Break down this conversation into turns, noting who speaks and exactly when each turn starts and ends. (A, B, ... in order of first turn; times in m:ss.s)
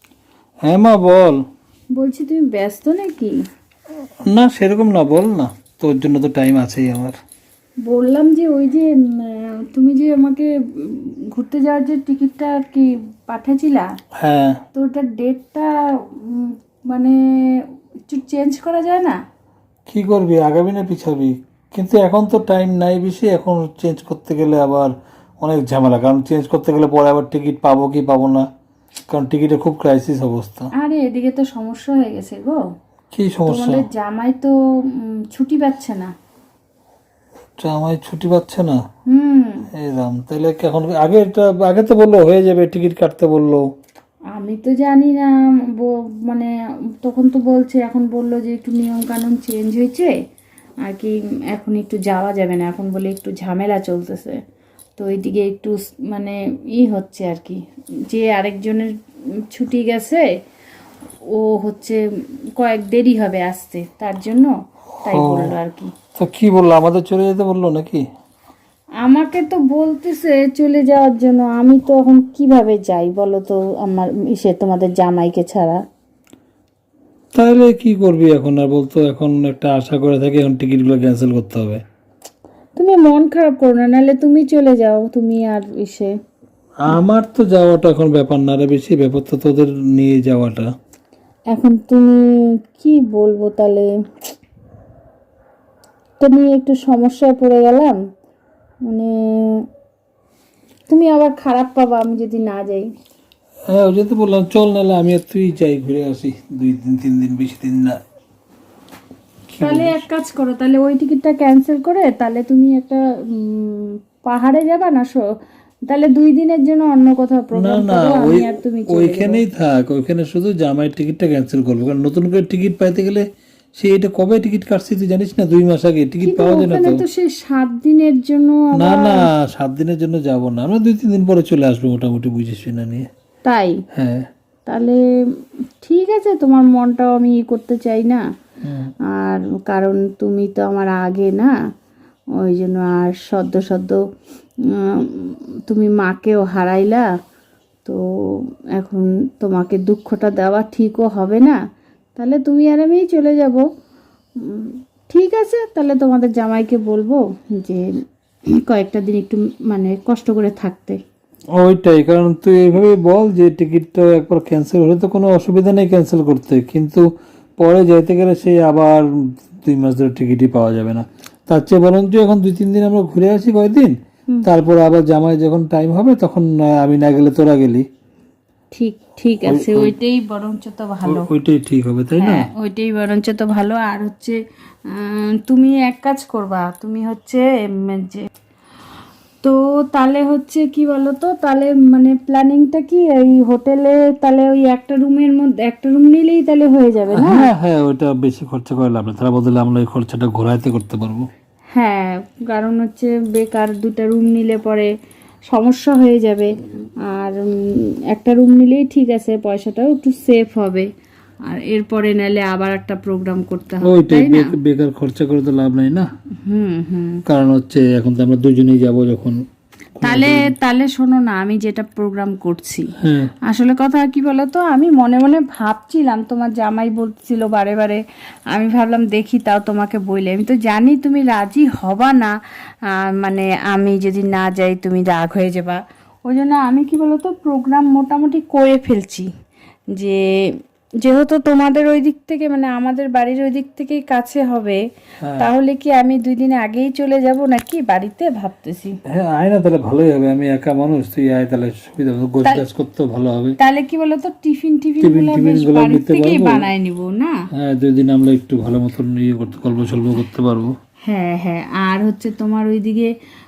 0:00.6-0:01.4 A
0:02.0-0:03.4 B
0:04.3-0:07.1 A
0:07.8-0:13.9 B
0:14.2-0:14.6 A
0:14.7-0:19.2 B
0:19.9-0:28.5 A
0:29.1-0:30.7 A
0:30.7-0:32.6 B
0:33.1-0:33.8 A
0:33.4-0:36.1 B
0:37.6-0:38.8 A
0:39.1-0:39.7 B
0:39.7-0:43.6 A
0:44.3-0:46.5 B
0:47.0-0:50.1 B
0:50.8-0:54.4 B
0:55.0-0:58.9 B
0:59.5-1:00.2 B
1:01.3-1:02.0 B
1:02.6-1:04.5 B
1:05.0-1:05.5 A
1:05.0-1:05.9 B
1:06.2-1:08.0 A
1:09.0-1:15.8 B
1:17.3-1:21.8 A
1:22.8-1:26.1 B
1:26.8-1:30.7 A
1:31.5-1:32.1 B
1:32.8-1:33.9 B
1:36.2-1:38.0 B
1:38.9-1:39.6 B
1:40.9-1:42.9 B
1:43.7-1:48.0 A
1:49.5-1:50.0 A
1:49.6-1:55.2 B
1:55.9-1:59.4 B
1:57.6-2:03.2 A
2:03.8-2:07.0 A
2:06.2-2:09.2 B
2:08.8-2:13.1 A
2:13.4-2:13.8 B
2:13.9-2:14.2 A
2:14.7-2:15.0 B
2:15.8-2:18.2 B
2:18.6-2:18.9 A
2:19.1-2:21.5 B
2:22.4-2:24.0 B
2:24.7-2:27.1 B
2:27.8-2:31.6 B
2:32.2-2:33.6 B
2:34.4-2:37.9 B
2:38.5-2:41.0 B
2:41.6-2:47.0 A
2:47.6-2:49.1 A
2:49.6-2:57.8 A
2:58.7-3:01.3 B
2:59.4-2:59.9 A
3:01.0-3:02.5 A
3:02.2-3:04.4 B
3:04.9-3:08.3 B
3:09.4-3:17.5 B
3:17.1-3:21.3 A
3:21.7-3:24.9 B
3:25.5-3:26.5 B
3:27.1-3:30.9 B
3:31.5-3:34.5 B
3:33.8-3:36.1 A
3:36.4-3:37.2 B
3:37.2-3:39.4 A
3:40.0-3:40.5 A
3:40.0-3:42.9 B
3:43.0-3:43.3 A
3:43.5-3:48.0 B
3:48.5-3:52.3 B
3:52.9-3:59.3 B
3:59.9-4:04.8 B
4:05.4-4:08.9 B
4:09.1-4:13.6 A
4:13.6-4:17.3 B
4:15.0-4:16.6 A
4:17.6-4:20.7 A
4:21.1-4:23.1 B